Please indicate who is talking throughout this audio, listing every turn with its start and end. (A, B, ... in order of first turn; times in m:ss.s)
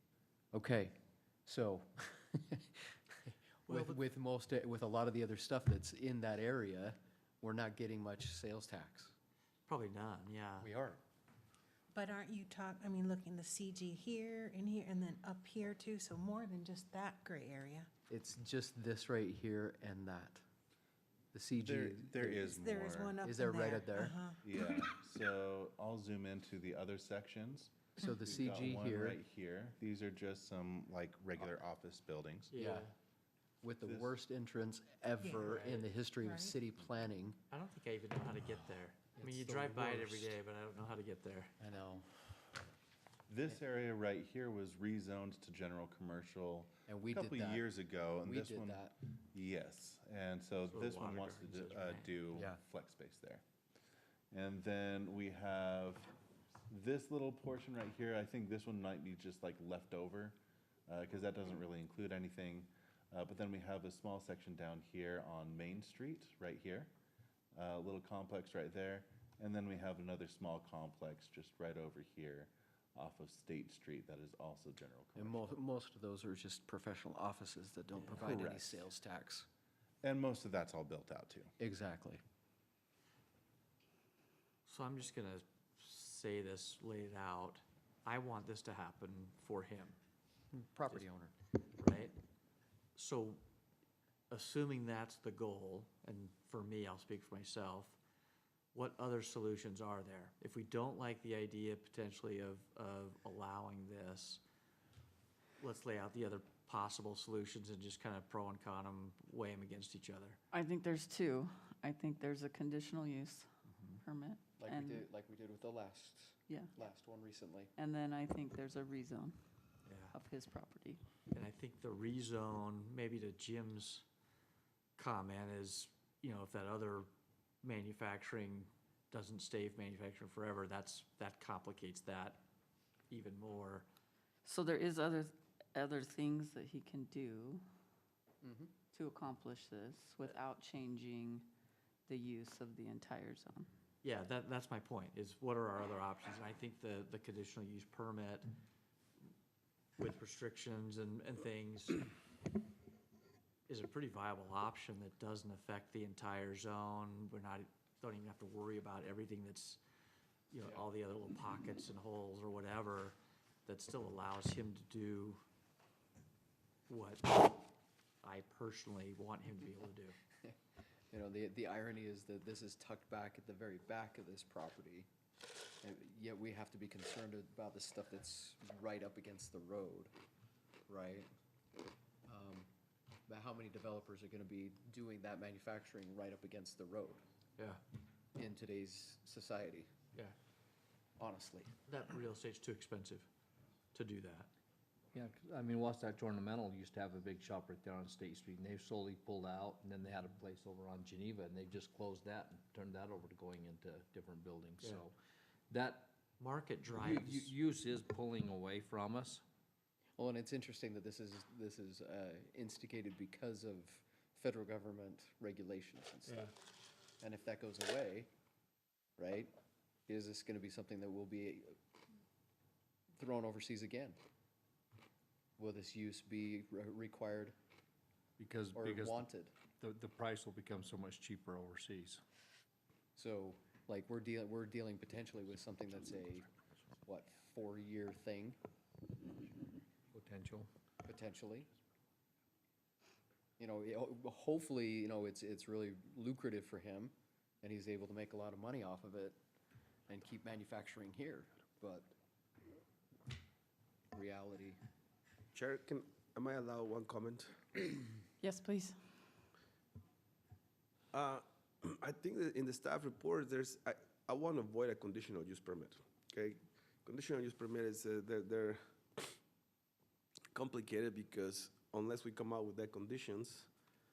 0:00.5-0:00.9 A
0:01.4-0:09.2 A
0:03.7-0:04.0 B
0:09.7-0:10.7 B
0:10.6-0:11.0 A
0:11.9-0:17.9 C
0:18.1-0:20.4 A
0:21.3-0:22.6 A
0:21.6-0:23.2 D
0:22.6-0:24.4 C
0:23.2-0:24.2 A
0:24.4-0:32.5 D
0:28.0-0:29.2 A
0:32.5-0:32.9 B
0:32.5-0:32.9 A
0:33.6-0:37.4 A
0:33.8-0:34.2 D
0:35.4-0:35.9 B
0:36.2-0:36.5 C
0:37.5-0:41.5 B
0:39.2-0:40.3 A
0:41.6-0:42.2 A
0:43.3-0:53.4 D
0:46.9-0:47.7 A
0:48.2-0:49.0 A
0:50.7-0:52.2 B
0:52.3-0:52.6 A
0:54.3-0:56.1 D
0:56.7-1:06.9 D
1:07.5-1:15.6 D
1:15.2-1:19.5 A
1:18.0-1:18.4 B
1:18.0-1:18.9 D
1:20.0-1:21.5 D
1:21.6-1:22.2 A
1:24.7-1:30.0 B
1:30.5-1:31.3 A
1:31.8-1:32.1 B
1:33.0-1:33.4 B
1:34.3-1:38.0 B
1:38.7-1:44.4 B
1:45.6-1:50.4 B
1:50.5-1:53.5 E
1:53.7-1:54.0 B
1:54.0-1:55.1 E
1:54.6-1:57.7 A
1:56.5-1:56.7 E
1:57.8-1:59.4 E
1:59.9-2:00.1 B
2:00.1-2:01.0 E
2:01.3-2:04.0 B
2:05.0-2:07.1 B
2:07.6-2:12.4 B
2:13.1-2:13.9 B
2:14.4-2:17.6 E
2:18.4-2:18.7 A
2:18.9-2:21.5 E
2:22.1-2:23.7 E
2:24.0-2:28.5 B
2:30.0-2:32.0 B
2:33.7-2:39.8 B
2:40.5-2:45.4 B
2:46.9-2:47.7 B
2:48.2-2:50.2 B
2:51.1-2:55.1 A
2:55.8-3:00.1 A
3:00.9-3:01.3 A
3:02.3-3:02.7 A
3:03.3-3:07.2 A
3:08.4-3:09.9 A
3:11.2-3:11.7 A
3:11.9-3:13.3 B
3:13.9-3:14.5 B
3:15.1-3:25.2 F
3:25.7-3:26.2 F
3:26.4-3:27.6 B
3:27.0-3:29.4 F
3:30.2-3:36.5 A
3:37.2-3:38.3 A
3:39.2-3:39.5 A
3:40.1-3:41.8 A
3:43.2-3:44.2 A
3:45.6-3:47.6 A
3:48.4-3:49.2 F
3:48.7-3:49.5 A
3:49.8-3:52.2 F
3:53.2-3:56.5 A
3:57.0-3:58.6 A
4:00.1-4:00.7 F
4:01.0-4:01.7 A
4:03.6-4:09.4 A
4:10.1-4:12.1 A
4:14.1-4:14.8 A
4:15.5-4:18.1 G
4:18.4-4:19.0 E
4:21.1-4:29.3 G
4:30.5-4:33.7 G